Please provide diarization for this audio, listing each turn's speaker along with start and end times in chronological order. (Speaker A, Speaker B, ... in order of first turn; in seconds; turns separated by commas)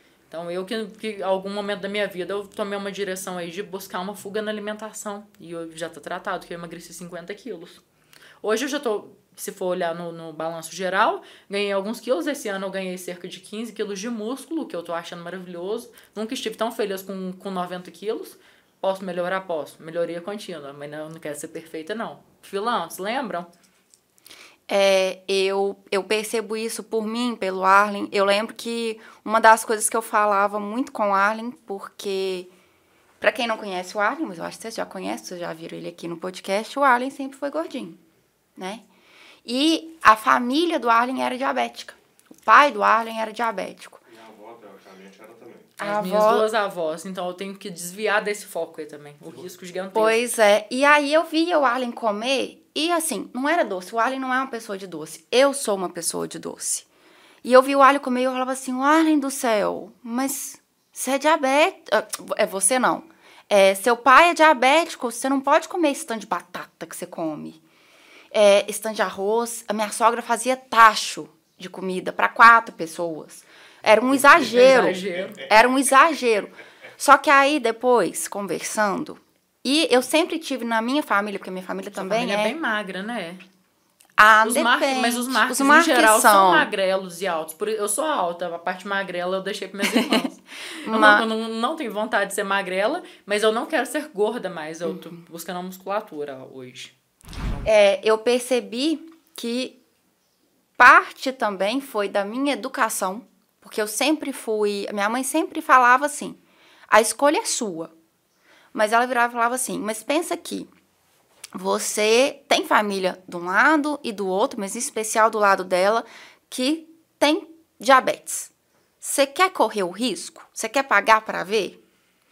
Speaker A: 0.3-7.8, Speaker A: 8.4-23.5, Speaker B: 24.7-32.5, Speaker B: 33.2-38.0, Speaker B: 38.6-38.9, Speaker B: 39.5-44.0, Speaker C: 44.1-45.8, Speaker A: 45.8-50.2, Speaker B: 45.8-46.5, Speaker B: 49.9-56.9, Speaker B: 57.4-67.6, Speaker B: 68.3-82.5, Speaker C: 74.2-75.4, Speaker A: 74.4-75.4, Speaker A: 81.9-83.4, Speaker B: 84.2-86.7, Speaker A: 84.5-96.9, Speaker B: 89.9-90.2, Speaker B: 90.8-91.3, Speaker B: 97.7-99.8, Speaker B: 100.8-107.9, Speaker B: 108.7-110.7, Speaker B: 111.5-118.5, Speaker B: 119.0-121.8